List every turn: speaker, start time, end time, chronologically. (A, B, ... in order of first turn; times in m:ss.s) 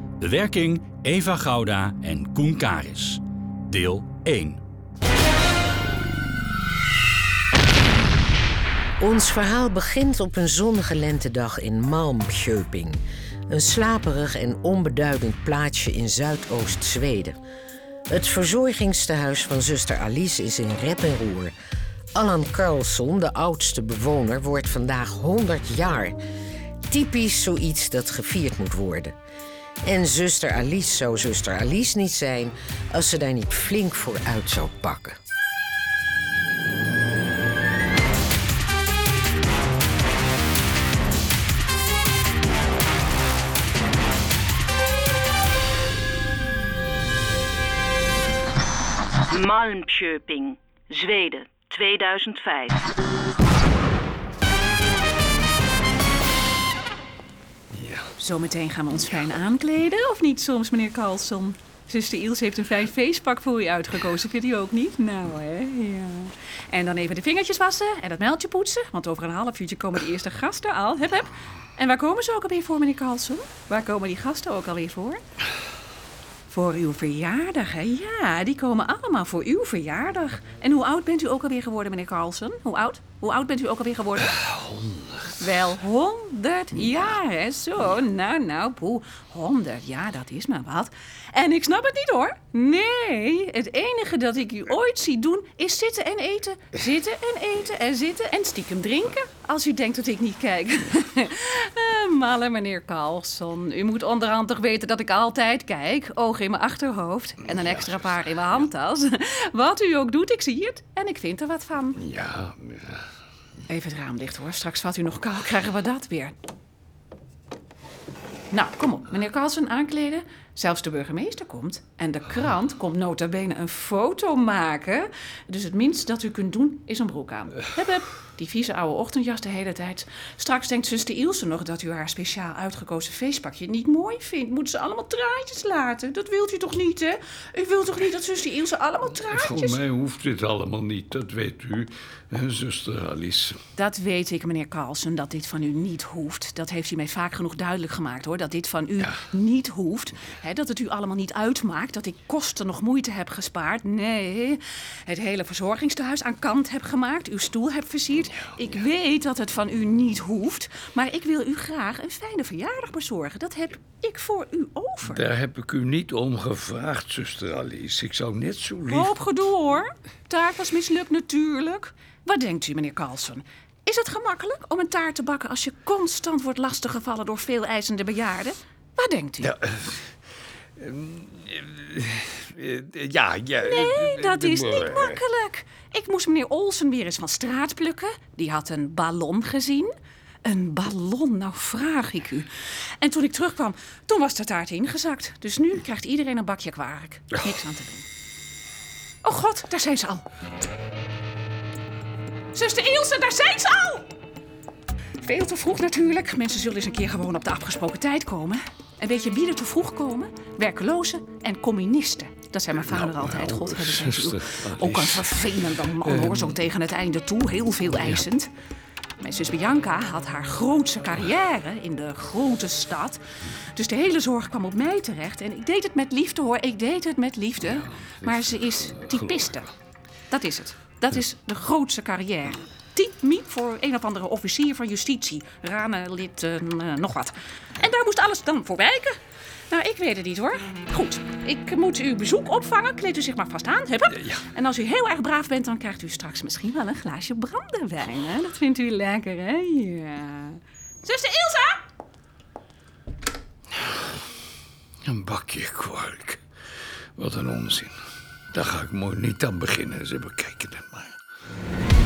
0:00.2-0:04.6 A
0:09.0-0:17.4 B
0:18.1-0:21.5 B
0:22.1-0:26.2 B
0:26.9-0:29.1 B
0:29.8-0:35.2 B
0:49.3-0:52.9 C
0:57.7-0:58.1 D
0:58.2-1:15.2 E
1:16.5-1:24.4 E
1:24.4-1:25.2 D
1:25.4-1:52.0 E
1:47.6-1:48.0 D
1:52.0-1:53.0 D
1:53.7-1:56.3 E
1:58.5-2:19.8 E
2:19.2-2:23.6 D
2:23.8-2:45.2 E
2:45.0-2:49.1 D
2:48.9-2:59.5 E
2:59.4-3:00.1 D
3:00.8-3:05.2 D
3:03.6-3:09.9 E
3:10.4-3:12.5 E
3:13.0-3:18.1 E
3:19.2-3:20.2 E
3:22.5-3:24.1 E
3:25.2-3:38.5 E
3:32.8-3:35.3 D
3:36.0-3:36.6 D
3:39.2-3:43.2 E
3:43.7-3:49.7 E
3:47.7-3:49.5 D
3:50.3-3:59.2 E
3:59.7-4:11.8 E
4:15.0-4:16.4 D
4:17.2-4:17.9 D
4:18.5-4:21.1 D